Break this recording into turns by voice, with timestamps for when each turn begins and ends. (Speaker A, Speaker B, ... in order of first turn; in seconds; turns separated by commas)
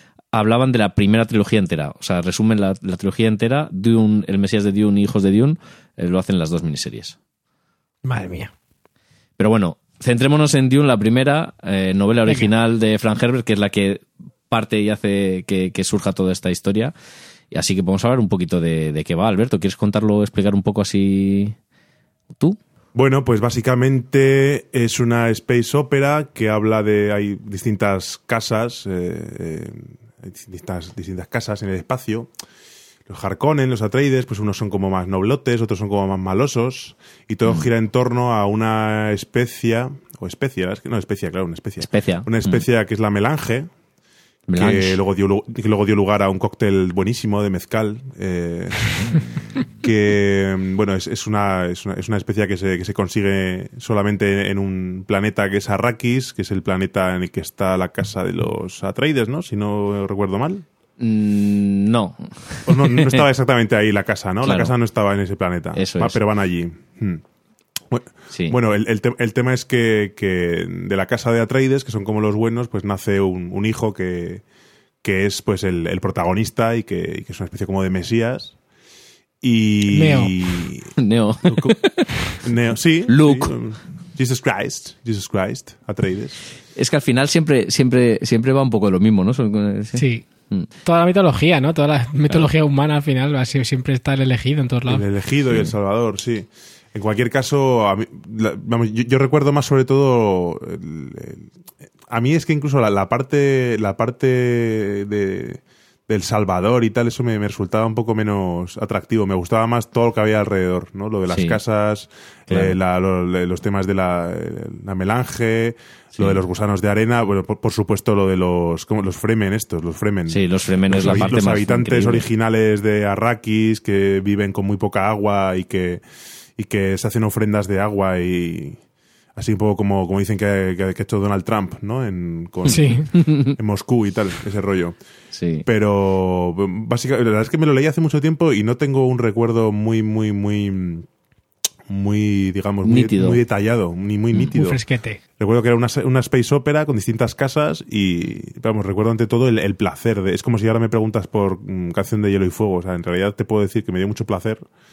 Speaker A: 0.3-7.2, Speaker B: 8.0-8.5, Speaker A: 9.4-16.9, Speaker A: 17.5-21.6, Speaker C: 22.9-32.3, Speaker C: 33.1-43.7, Speaker A: 41.8-42.6, Speaker A: 44.5-45.0, Speaker C: 44.6-49.2, Speaker A: 49.0-49.3, Speaker C: 49.8-60.6, Speaker A: 61.0-63.2, Speaker C: 62.7-67.2, Speaker A: 64.4-64.7, Speaker A: 65.7-66.2, Speaker C: 67.9-74.4, Speaker C: 75.0-78.6, Speaker C: 79.4-80.9, Speaker B: 79.9-80.4, Speaker A: 81.0-82.4, Speaker C: 81.5-81.8, Speaker C: 82.4-86.4, Speaker A: 83.1-83.5, Speaker A: 86.8-90.7, Speaker B: 90.0-90.2, Speaker B: 90.8-95.0, Speaker C: 94.9-101.5, Speaker C: 102.1-126.0, Speaker A: 111.3-111.6, Speaker A: 112.5-112.8, Speaker A: 120.3-122.3, Speaker B: 121.0-121.3, Speaker C: 126.6-128.8, Speaker C: 129.4-135.0, Speaker B: 132.7-133.1, Speaker A: 133.1-133.6, Speaker A: 135.3-135.7, Speaker C: 135.7-141.1, Speaker C: 141.9-144.8, Speaker A: 142.8-143.4, Speaker B: 144.5-145.2, Speaker C: 145.4-154.7